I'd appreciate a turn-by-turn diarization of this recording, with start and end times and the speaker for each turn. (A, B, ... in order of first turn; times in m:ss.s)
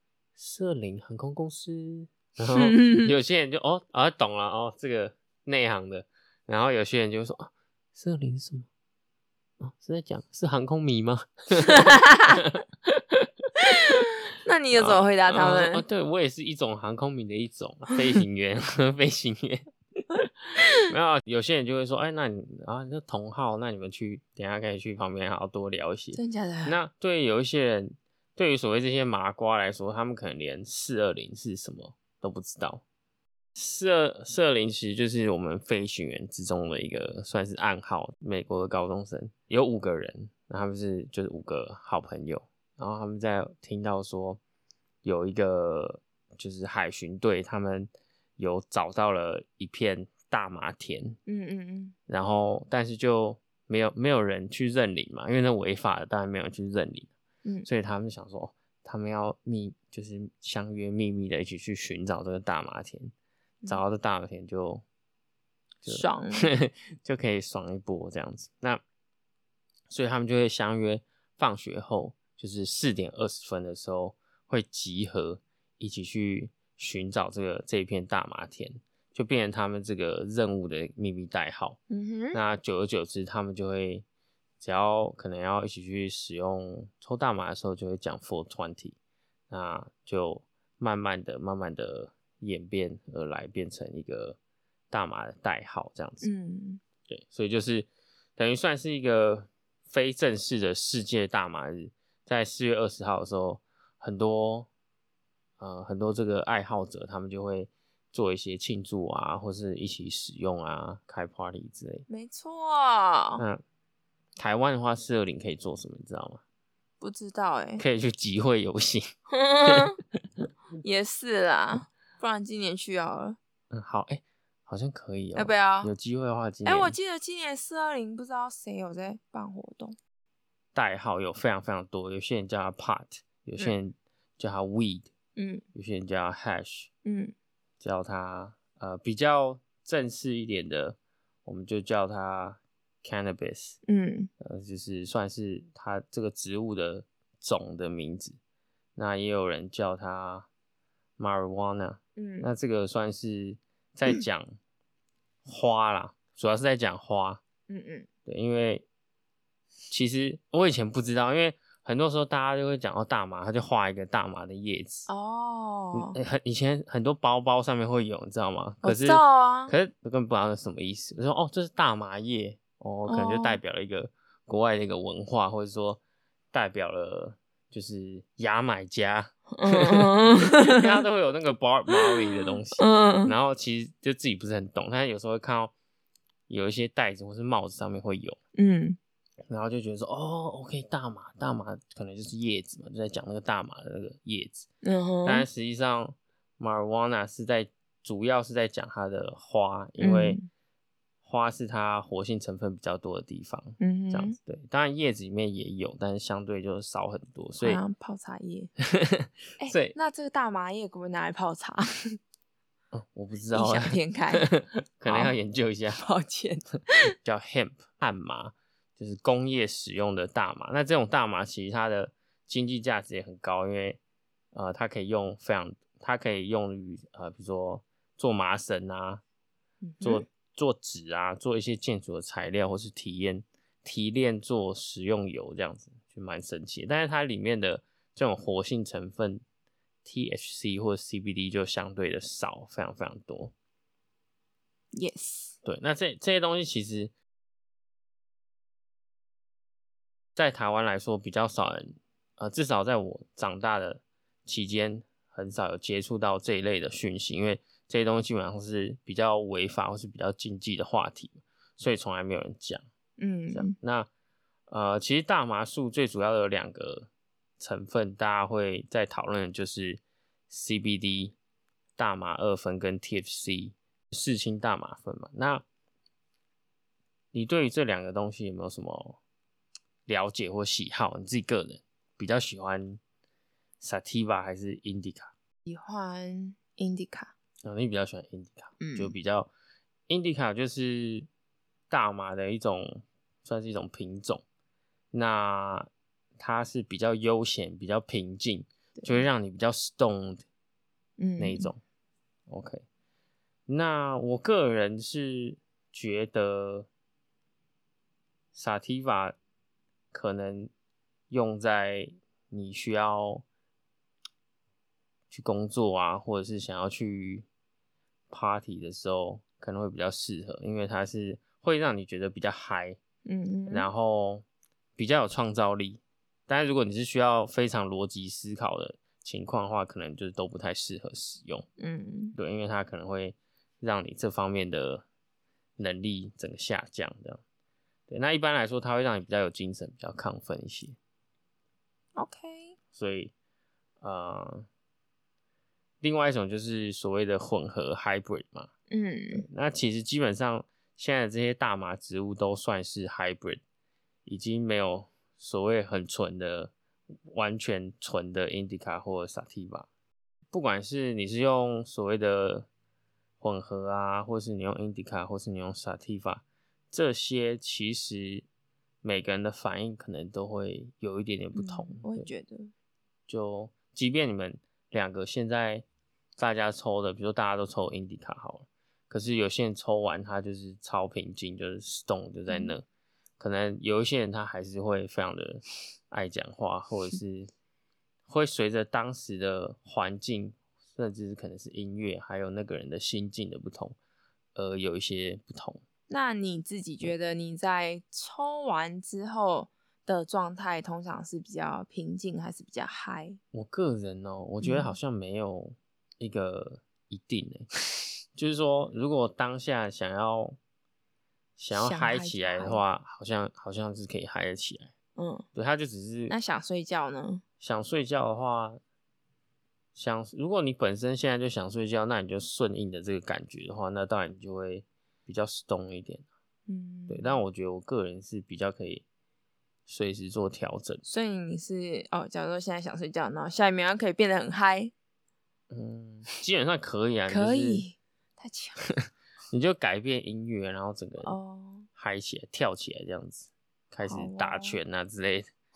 0:00.4-0:08.7 A
0:02.5-0:03.1 B
0:09.6-0:13.3 A
0:11.6-0:12.4 B
0:13.6-0:15.8 B
0:14.7-0:19.6 A
0:20.8-0:32.8 A
0:26.1-0:26.8 B
0:33.5-0:44.4 A
0:45.0-0:51.2 A
0:51.3-0:51.9 B
0:52.1-0:57.1 A
0:57.6-1:03.1 A
1:03.7-1:04.8 A
1:05.8-1:08.8 A
1:05.9-1:06.5 B
1:09.9-1:21.8 A
1:21.9-1:22.4 B
1:22.3-1:24.0 A
1:24.6-1:29.0 A
1:29.5-1:34.4 A
1:34.9-1:36.3 A
1:36.2-1:36.8 B
1:37.1-1:44.7 A
1:45.6-1:52.0 A
1:52.1-1:53.4 B
1:53.4-1:53.6 A
1:54.4-1:56.4 A
1:57.0-1:57.8 B
1:57.8-1:59.1 A
1:59.3-2:00.0 B
2:00.8-2:03.4 B
2:03.7-2:06.9 A
2:05.3-2:05.9 B
2:06.6-2:10.0 B
2:10.7-2:15.1 A
2:15.4-2:15.6 B
2:15.7-2:16.9 A
2:17.0-2:17.3 B
2:17.8-2:23.8 A
2:23.8-2:24.3 B
2:24.4-2:28.4 A
2:29.0-2:30.5 A
2:31.2-2:34.5 A
2:32.2-2:32.5 B
2:35.4-2:37.4 A
2:37.7-2:38.1 B
2:38.2-2:38.8 A
2:39.9-2:45.1 A
2:45.1-2:46.2 B
2:45.9-2:56.0 A
2:48.8-2:49.7 B
2:53.1-2:53.6 B
2:56.5-3:05.7 A
2:59.6-3:00.9 B
3:01.9-3:02.2 B
3:02.7-3:03.3 B
3:06.5-3:08.4 A
3:08.6-3:09.0 B
3:09.5-3:14.6 A
3:14.8-3:15.5 B
3:15.2-3:20.4 A
3:20.0-3:20.4 B
3:21.2-3:27.8 A
3:23.8-3:24.4 B
3:27.6-3:28.7 B
3:28.8-3:29.9 A
3:29.6-3:32.2 B
3:32.9-3:36.0 A
3:33.5-3:34.5 B
3:35.1-3:35.3 B
3:36.0-3:37.1 B
3:37.2-3:44.0 A
3:44.5-3:49.2 A
3:49.8-3:50.2 B
3:50.0-3:59.4 A
4:00.0-4:03.5 A
4:04.9-4:05.5 B
4:05.6-4:07.1 A
4:10.4-4:22.8 A
4:23.2-4:23.7 B
4:23.5-4:24.1 A
4:24.7-4:27.1 A
4:27.6-4:31.4 A
4:32.0-4:35.6 A
4:37.3-4:39.2 A
4:40.0-4:43.0 A
4:43.8-4:45.3 A
4:45.6-4:47.3 B
4:47.6-4:49.5 A
4:48.8-4:49.1 B
4:50.1-4:51.3 A
4:51.9-4:54.4 A
4:55.1-5:00.4 A
4:59.0-4:59.2 B
5:01.2-5:01.7 B
5:01.4-5:01.8 A
5:02.5-5:02.8 A
5:03.7-5:06.9 A
5:08.5-5:09.4 A
5:10.1-5:10.7 A
5:11.3-5:13.4 A
5:15.3-5:17.5 A
5:18.3-5:23.0 A
5:23.2-5:23.8 B
5:23.7-5:24.4 A
5:25.0-5:31.6 A
5:31.8-5:32.4 B
5:32.4-5:35.0 A
5:35.8-5:37.4 A
5:38.1-5:41.0 A
5:42.2-5:42.7 B
5:42.9-5:43.3 A
5:44.0-5:44.7 A
5:46.0-5:48.7 A
5:48.9-5:49.4 B
5:49.4-5:53.6 A
5:54.2-5:56.7 A
5:57.2-5:59.9 A
6:00.5-6:02.7 A
6:03.4-6:08.4 A
6:09.0-6:12.3 A
6:11.5-6:12.7 B
6:13.3-6:15.8 A
6:16.4-6:22.8 A
6:23.4-6:27.5 A
6:28.3-6:34.0 A
6:34.5-6:35.8 A
6:36.1-6:43.4 B
6:43.5-6:47.7 A
6:44.6-6:44.9 B
6:48.4-6:50.6 A
6:51.6-6:54.9 A
6:51.7-6:52.8 B
6:55.2-6:55.4 B
6:55.5-6:56.3 A
6:56.3-6:57.4 B
6:57.6-6:58.8 A
6:59.9-7:06.2 A
7:06.7-7:07.4 B
7:07.1-7:09.0 A
7:09.9-7:11.0 A
7:11.0-7:14.9 B
7:15.7-7:17.8 A
7:17.3-7:18.8 B
7:18.9-7:21.3 A
7:21.2-7:21.9 B
7:22.0-7:25.5 A
7:24.1-7:24.8 B